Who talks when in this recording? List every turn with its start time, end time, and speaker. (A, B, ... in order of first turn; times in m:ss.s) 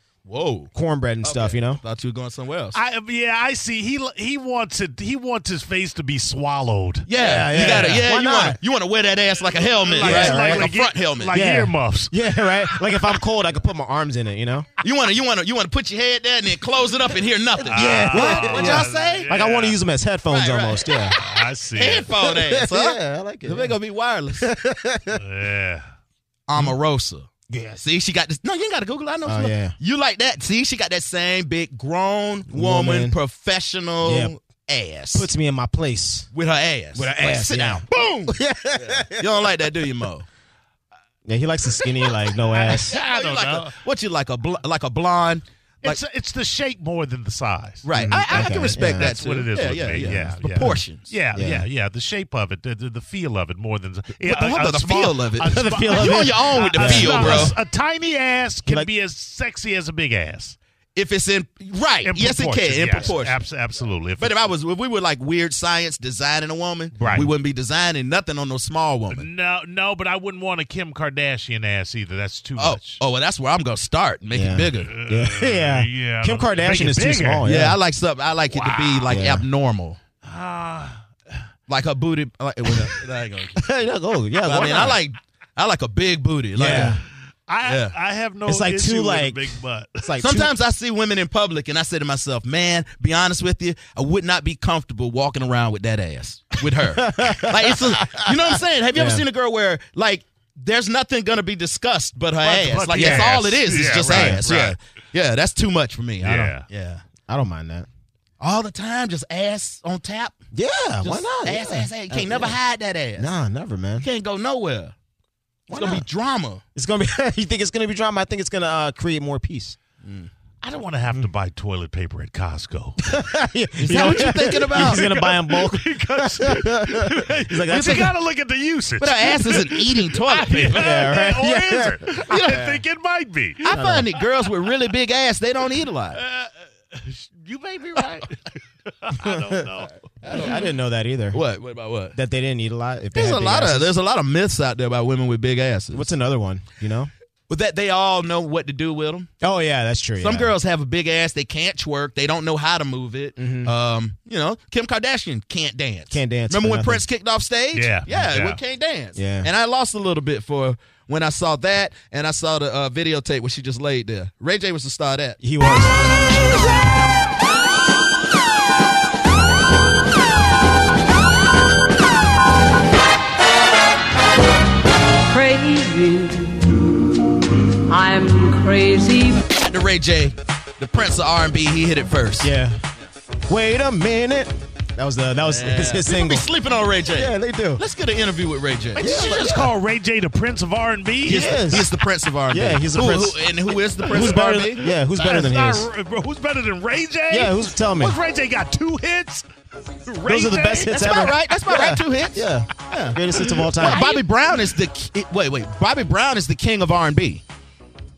0:00.2-0:00.7 A
0:00.7-0:01.8 B
0:01.2-0:02.8 A
0:02.7-0:08.0 C
0:07.0-0:11.4 A
0:07.2-0:08.6 B
0:09.6-0:13.2 C
0:10.0-0:10.7 B
0:11.3-0:14.7 B
0:14.8-0:19.3 A
0:17.6-0:21.2 B
0:17.7-0:19.8 C
0:20.3-0:21.0 A
0:21.2-0:22.1 C
0:21.7-0:24.5 A
0:22.2-0:23.7 B
0:24.4-0:25.2 B
0:25.1-0:25.8 C
0:26.5-0:27.3 A
0:27.5-0:27.8 B
0:27.8-0:35.3 A
0:29.2-0:29.8 B
0:32.5-0:33.2 B
0:34.0-0:34.3 B
0:35.1-0:36.3 B
0:36.3-0:40.3 A
0:36.9-0:39.7 B
0:41.2-0:43.0 B
0:42.5-0:43.7 C
0:42.7-0:46.0 A
0:45.8-1:00.6 C
0:47.8-0:51.1 A
0:47.9-0:49.1 B
0:50.0-0:50.8 B
0:51.3-0:51.6 B
0:54.2-0:57.5 A
0:55.4-0:57.5 B
1:01.0-1:03.4 A
1:02.0-1:04.4 C
1:04.2-1:09.2 A
1:07.0-1:07.3 C
1:09.1-1:13.0 C
1:12.6-1:14.9 A
1:14.3-1:17.8 B
1:14.8-1:17.5 C
1:17.4-1:20.0 A
1:18.5-1:19.2 C
1:19.1-1:19.4 B
1:20.2-1:21.0 C
1:21.7-1:23.7 A
1:23.6-1:25.0 B
1:24.4-1:27.0 A
1:26.5-1:27.0 B
1:26.7-1:26.9 C
1:27.5-1:30.2 C
1:27.6-1:27.9 A
1:28.4-1:30.5 B
1:30.2-1:47.0 A
1:36.8-1:39.2 B
1:42.4-1:44.8 C
1:42.9-1:43.3 B
1:44.0-1:44.5 B
1:46.2-1:46.6 C
1:47.3-1:47.9 B
1:48.4-1:50.4 A
1:50.5-1:52.6 B
1:51.0-1:53.3 A
1:53.2-1:54.0 B
1:54.0-1:54.9 A
1:55.7-1:56.0 B
1:55.7-1:56.6 A
1:56.7-1:59.8 B
2:00.0-2:00.3 A
2:00.6-2:03.1 C
2:03.0-2:08.1 B
2:03.8-2:05.0 A
2:04.3-2:14.2 C
2:07.7-2:08.1 A
2:09.0-2:10.8 A
2:10.7-2:12.8 B
2:12.3-2:12.6 A
2:13.6-2:16.2 A
2:13.7-2:14.1 B
2:16.1-2:20.2 C
2:19.2-2:19.7 B
2:20.2-2:21.4 B
2:20.2-2:20.6 A
2:21.3-2:22.2 A
2:22.1-2:23.9 B
2:23.1-2:26.1 A
2:25.9-2:27.1 B
2:27.5-2:29.3 A
2:29.4-2:30.5 B
2:30.2-2:45.4 A
2:33.4-2:33.7 B
2:36.1-2:37.0 B
2:37.7-2:38.6 C
2:39.2-2:39.5 B
2:45.4-2:46.0 B
2:55.2-2:57.0 D
2:57.7-2:59.4 D
2:59.5-3:02.5 A
3:02.4-3:02.8 B
3:03.5-3:06.5 B
3:05.4-3:09.7 A
3:07.1-3:07.8 B
3:09.0-3:11.6 C
3:09.0-3:09.6 B
3:11.2-3:11.9 B
3:11.2-3:14.8 A
3:12.5-3:13.4 B
3:14.0-3:19.5 C
3:14.1-3:15.9 B
3:17.3-3:18.2 B
3:20.0-3:21.0 C
3:20.2-3:24.1 B
3:20.9-3:23.2 A
3:23.3-3:24.2 C
3:23.8-3:27.4 A